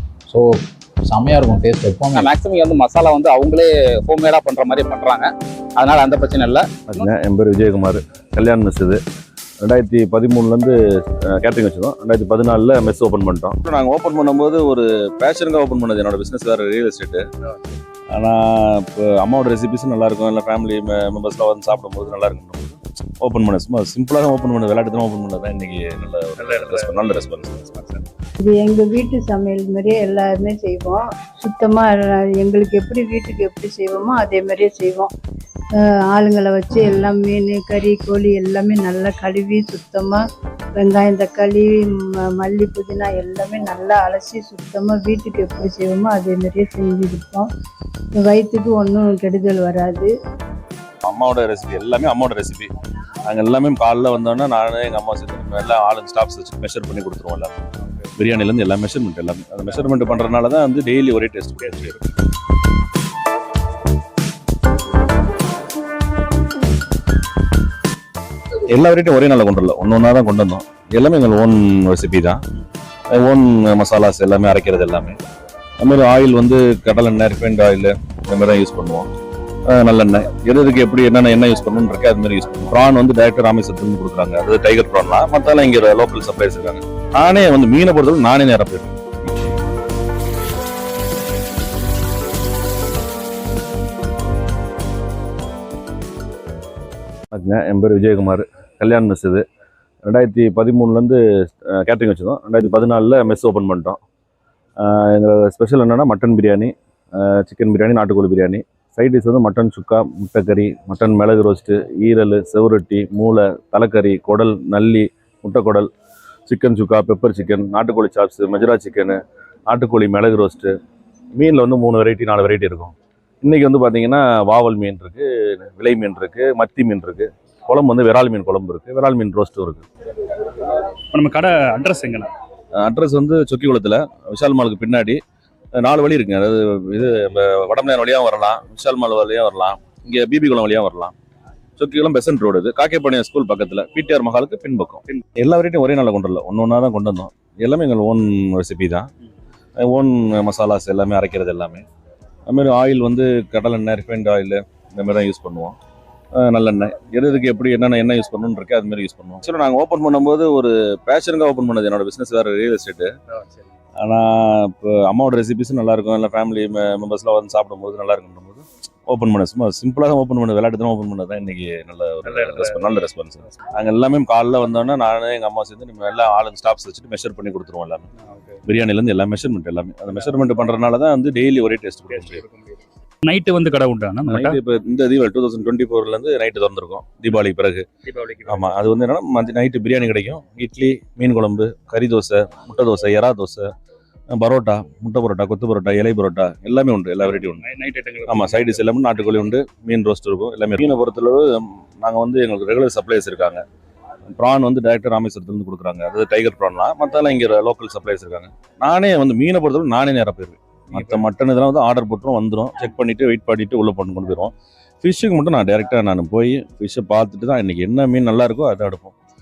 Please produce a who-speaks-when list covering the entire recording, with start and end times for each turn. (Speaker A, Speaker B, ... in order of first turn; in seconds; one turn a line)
Speaker A: 0.3-2.3
Speaker B: 2.1-7.1
Speaker C: 6.9-9.0
Speaker C: 9.6-17.2
Speaker C: 18.1-28.0
Speaker D: 28.4-35.1
Speaker D: 35.7-40.2
Speaker D: 40.7-47.5
Speaker D: 48.1-50.1
Speaker C: 51.0-52.7
Speaker C: 53.2-57.5
Speaker C: 58.2-62.1
Speaker C: 68.7-72.4
Speaker C: 73.1-75.2
Speaker C: 75.8-79.1
Speaker C: 79.7-89.0
Speaker C: 97.3-99.4
Speaker C: 100.0-104.0
Speaker C: 104.8-115.9
Speaker C: 116.5-119.2
Speaker C: 119.7-120.7
Speaker C: 121.4-129.8
Speaker E: 131.1-132.3
Speaker C: 132.8-135.2
Speaker C: 135.8-141.1
Speaker C: 141.8-149.1
Speaker C: 149.8-151.8
Speaker C: 152.5-155.8
Speaker C: 156.4-163.1
Speaker C: 164.0-178.1
Speaker E: 172.2-172.7
Speaker C: 178.7-182.4
Speaker E: 182.1-184.6
Speaker C: 184.3-187.8
Speaker E: 188.1-188.7
Speaker C: 188.4-193.7
Speaker C: 194.3-197.6
Speaker E: 197.3-198.8
Speaker C: 198.3-201.4
Speaker C: 202.0-203.6
Speaker C: 204.3-219.1